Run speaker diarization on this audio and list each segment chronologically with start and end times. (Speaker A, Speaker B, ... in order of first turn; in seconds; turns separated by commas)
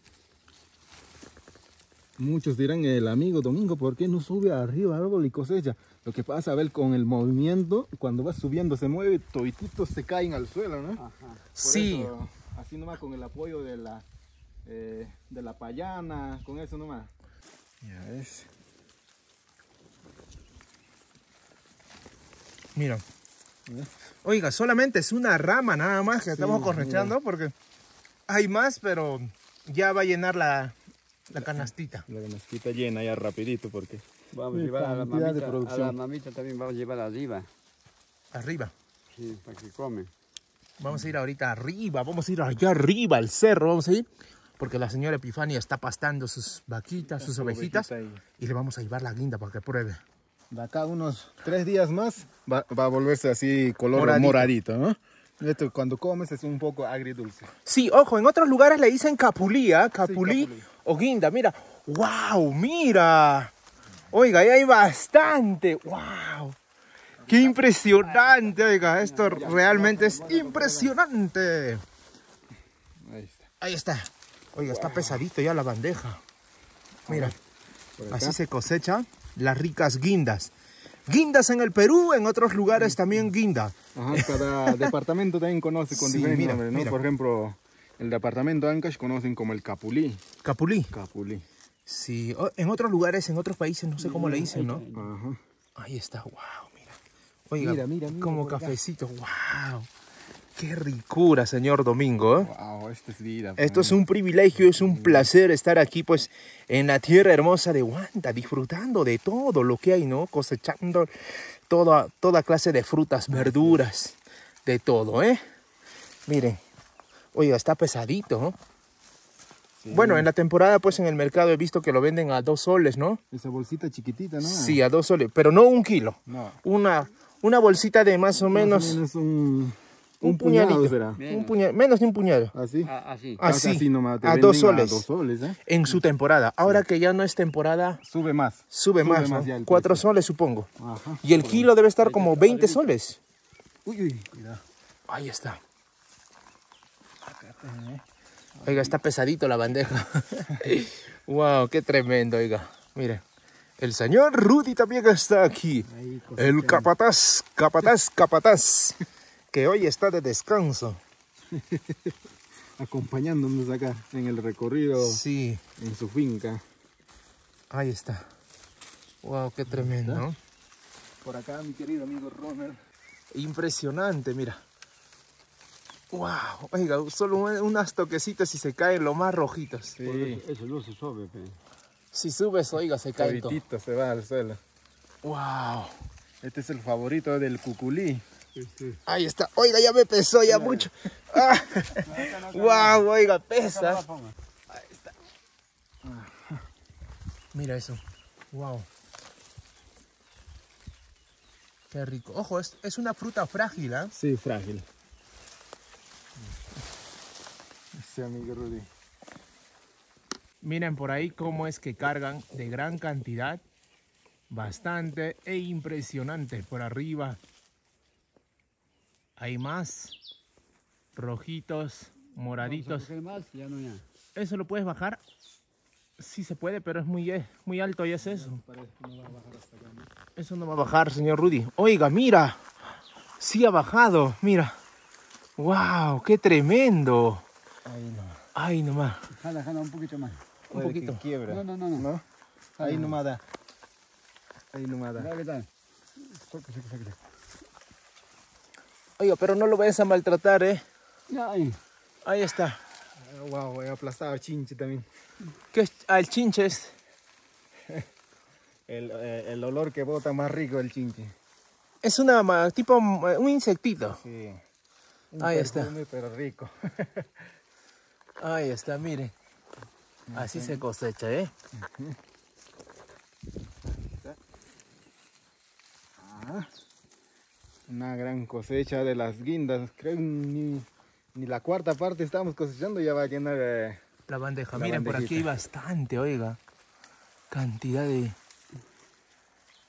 Speaker A: 2.2-11.0, Speaker B: 11.0-11.5, Speaker C: 11.6-12.2, Speaker A: 11.6-14.1, Speaker A: 14.7-17.1, Speaker A: 17.8-18.5, Speaker C: 22.8-23.0, Speaker C: 24.2-27.5, Speaker A: 26.3-27.2, Speaker C: 28.3-30.8, Speaker A: 31.3-36.0, Speaker C: 31.4-32.1, Speaker B: 34.3-37.5, Speaker C: 38.3-38.7, Speaker B: 39.1-40.1, Speaker C: 40.8-44.1, Speaker C: 44.6-50.0, Speaker A: 47.1-48.2, Speaker A: 50.5-57.5, Speaker C: 53.9-54.5, Speaker C: 57.7-63.5, Speaker A: 60.0-60.7, Speaker C: 64.1-66.6, Speaker A: 67.2-67.7, Speaker C: 67.3-71.8, Speaker B: 68.1-69.5, Speaker A: 69.3-70.9, Speaker A: 73.0-73.5, Speaker C: 73.6-76.2, Speaker A: 74.7-75.2, Speaker A: 77.1-77.4, Speaker C: 77.1-77.3, Speaker A: 78.0-78.4, Speaker C: 78.1-80.5, Speaker C: 81.1-84.9, Speaker A: 83.9-90.2, Speaker C: 85.9-87.0, Speaker C: 90.4-90.9, Speaker A: 90.9-91.5, Speaker C: 91.9-94.8, Speaker B: 94.0-95.1, Speaker A: 94.0-95.4, Speaker C: 95.8-97.0, Speaker C: 97.5-99.9, Speaker A: 97.6-98.8, Speaker C: 100.6-102.5, Speaker A: 102.4-104.0, Speaker C: 103.6-111.1, Speaker A: 104.5-105.3, Speaker C: 111.7-115.4, Speaker A: 113.3-113.9, Speaker C: 116.3-116.6, Speaker C: 117.3-118.6, Speaker A: 119.8-120.3, Speaker C: 119.9-123.2, Speaker A: 123.3-124.9, Speaker C: 124.4-129.0, Speaker A: 126.3-126.6, Speaker A: 128.5-131.2, Speaker C: 130.2-132.5, Speaker B: 131.2-131.6, Speaker A: 132.5-132.9, Speaker B: 132.8-133.4, Speaker C: 133.4-135.1, Speaker A: 133.4-136.0, Speaker C: 135.7-138.0, Speaker A: 138.0-140.1, Speaker C: 138.7-140.7, Speaker A: 140.8-141.7, Speaker C: 141.2-143.2, Speaker B: 142.0-143.0, Speaker A: 143.8-144.6, Speaker C: 145.1-145.6, Speaker A: 147.2-148.0, Speaker A: 148.6-149.0, Speaker C: 148.6-153.2, Speaker C: 153.8-159.0, Speaker A: 155.9-156.9, Speaker C: 159.5-161.0, Speaker A: 161.5-162.2, Speaker A: 162.8-165.2, Speaker C: 165.0-165.6, Speaker A: 165.8-166.6, Speaker C: 167.7-168.3, Speaker C: 169.2-170.4, Speaker A: 169.7-170.3, Speaker A: 171.2-172.8, Speaker C: 173.3-174.6, Speaker C: 176.1-180.0, Speaker A: 179.9-180.4, Speaker B: 180.0-181.6, Speaker C: 182.1-183.6, Speaker A: 183.2-184.6, Speaker C: 185.2-185.9, Speaker A: 186.4-188.2, Speaker B: 188.6-189.0, Speaker C: 189.1-194.1, Speaker A: 190.5-190.9, Speaker B: 192.1-193.0, Speaker B: 193.7-194.3, Speaker A: 194.7-195.1, Speaker A: 196.0-196.6, Speaker C: 197.5-198.0, Speaker C: 198.5-198.9, Speaker C: 201.9-204.1, Speaker A: 204.1-204.9, Speaker A: 208.0-208.9, Speaker C: 210.6-213.6, Speaker C: 214.5-217.4, Speaker C: 219.4-220.2, Speaker C: 221.2-223.1, Speaker B: 222.6-224.0, Speaker C: 224.3-225.2, Speaker C: 226.2-228.6, Speaker A: 228.2-230.1, Speaker C: 230.4-232.6, Speaker C: 233.4-234.8, Speaker C: 235.6-237.4, Speaker A: 237.8-238.4, Speaker C: 238.6-239.3, Speaker B: 239.3-240.4, Speaker C: 240.7-241.2, Speaker A: 240.7-242.2, Speaker B: 241.4-242.1, Speaker B: 242.8-243.2, Speaker A: 242.8-243.4, Speaker A: 244.7-245.3, Speaker B: 245.2-245.7, Speaker B: 246.3-247.2, Speaker C: 249.2-250.8, Speaker B: 251.3-251.8, Speaker C: 252.2-252.8, Speaker A: 253.2-255.1, Speaker C: 255.7-256.9, Speaker A: 258.9-261.3, Speaker C: 262.0-264.2, Speaker A: 264.1-264.6, Speaker A: 265.3-267.4, Speaker C: 265.4-265.9, Speaker C: 268.4-269.3, Speaker A: 270.3-270.8, Speaker C: 270.3-271.5, Speaker A: 271.8-272.2, Speaker A: 273.9-274.4, Speaker A: 276.2-276.7, Speaker A: 277.9-284.0, Speaker C: 284.3-286.6, Speaker A: 284.7-285.5, Speaker C: 287.5-288.4